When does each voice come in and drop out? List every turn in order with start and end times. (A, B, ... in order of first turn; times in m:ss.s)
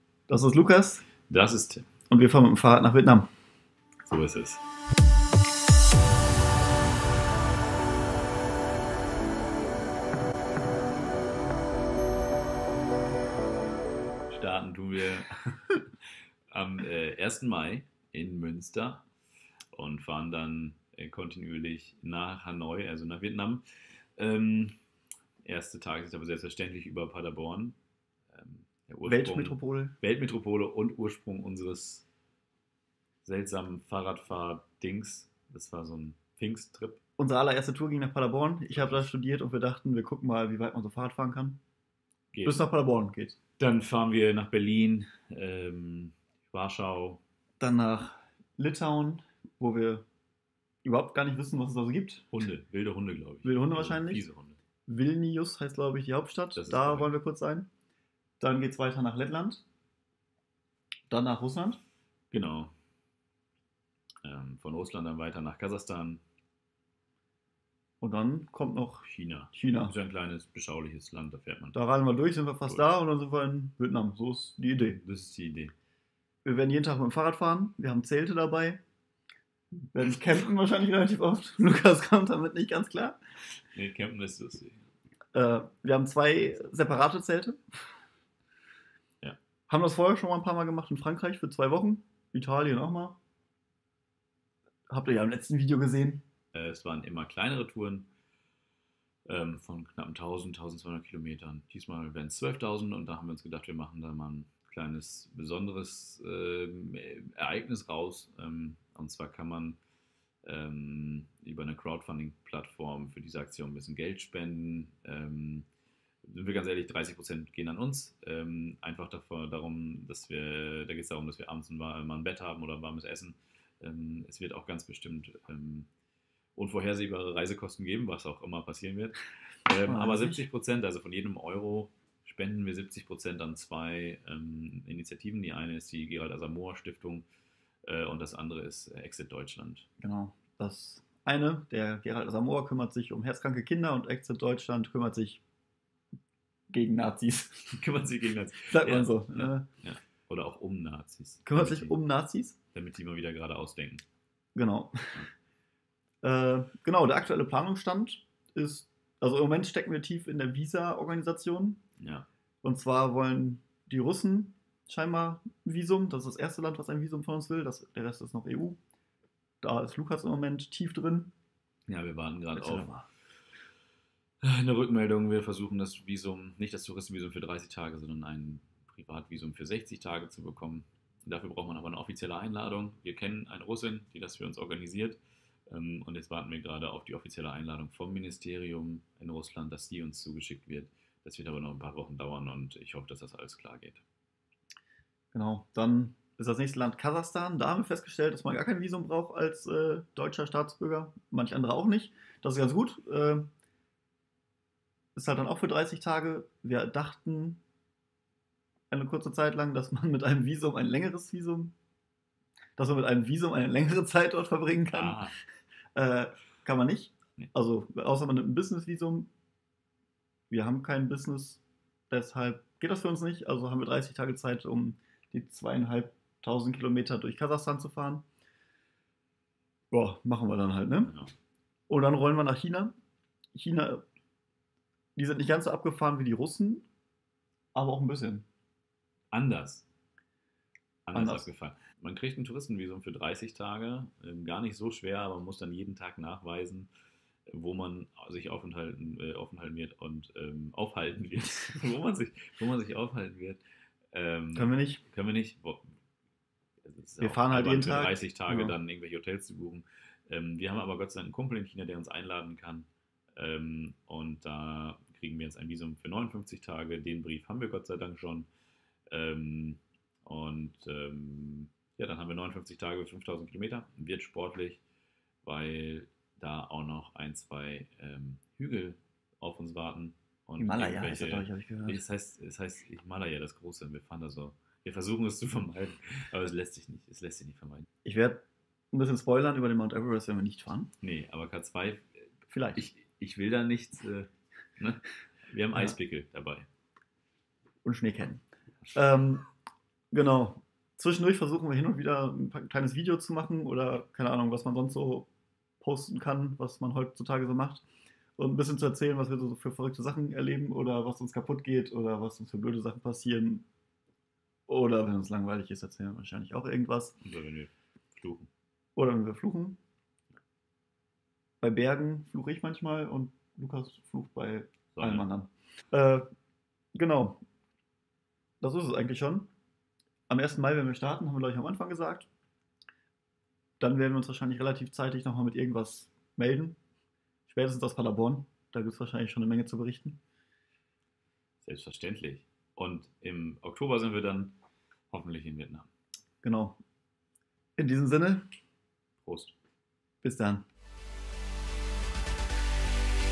0:00.3-0:01.0 A
0:01.2-0:01.9 B
0:02.1-0:03.3 A
0:04.0-0:04.6 B
0:14.3-0:15.9 B
0:16.5-0:19.0 B
0:19.7-0:23.6 B
0:24.2-0:24.8 B
0:25.4-0:27.8 B
0:28.3-0:32.0 B
0:29.0-0:30.0 A
0:33.2-0:37.0 B
0:37.2-0:41.6 A
0:38.7-0:39.1 B
0:42.3-0:42.6 B
0:42.4-0:43.4 A
0:43.6-0:47.2 B
0:47.6-0:50.0 A
0:50.8-0:52.3 A
0:52.3-0:54.6 B
0:53.4-0:54.2 A
0:54.9-0:57.7 A
0:56.6-0:57.1 B
0:58.4-0:59.6 A
1:01.1-1:01.8 A
1:02.3-1:02.7 B
1:04.2-1:06.2 B
1:08.0-1:09.9 A
1:09.0-1:11.8 B
1:11.7-1:15.0 A
1:14.8-1:15.7 B
1:16.4-1:18.8 A
1:19.9-1:23.2 A
1:23.7-1:24.8 B
1:25.3-1:27.6 A
1:29.7-1:33.2 A
1:34.9-1:36.2 A
1:36.5-1:38.1 B
1:39.2-1:49.8 B
1:50.4-1:55.7 B
1:56.2-2:05.9 B
2:06.5-2:17.2 B
2:09.8-2:10.4 A
2:17.8-2:19.9 B
2:20.0-2:25.4 A
2:26.7-2:27.8 A
2:27.8-2:32.0 B
2:28.7-2:29.7 A
2:31.4-2:32.6 A
2:32.7-2:34.0 B
2:34.5-2:35.2 A
2:36.2-2:41.8 A
2:42.0-2:42.3 B
2:42.6-2:48.8 A
2:49.6-2:51.3 A
2:51.9-2:52.9 B
2:52.5-2:53.0 A
2:54.4-3:14.0 B
3:15.3-3:23.5 A
3:25.1-3:27.6 A
3:28.9-3:31.7 A
3:32.8-3:35.2 A
3:34.9-3:35.3 B
3:35.9-3:39.3 A
3:40.5-3:48.2 A
3:49.9-3:51.1 A
3:51.1-3:51.3 B
3:51.9-3:52.9 A
3:53.5-3:54.0 A
3:55.2-3:56.8 A
3:57.7-3:58.4 A
3:59.3-3:59.8 B
4:01.0-4:06.9 B
4:01.1-4:01.4 A
4:07.5-4:13.6 B
4:14.1-4:15.9 B
4:14.5-4:15.0 A
4:16.8-4:28.5 B
4:17.2-4:18.7 A
4:29.1-4:34.8 B
4:35.4-4:47.9 B
4:40.6-4:42.0 A
4:48.0-4:50.9 A
4:51.0-4:52.1 B
4:52.5-4:52.8 A
4:52.8-4:56.6 B
4:57.8-4:59.5 A
5:00.1-5:05.3 A
5:05.8-5:07.8 A
5:08.4-5:13.6 A
5:14.7-5:17.2 A
5:17.2-5:18.5 B
5:19.0-5:19.8 A
5:21.6-5:26.2 A
5:24.9-5:25.2 B
5:26.9-5:27.4 A
5:28.6-5:29.5 A
5:30.3-5:32.3 A
5:33.8-5:36.8 A
5:37.5-5:40.2 A
5:41.6-5:44.5 B
5:45.1-5:45.9 B
5:46.4-5:46.8 A
5:47.8-5:48.4 A
5:49.2-5:49.5 B
5:50.2-5:50.6 A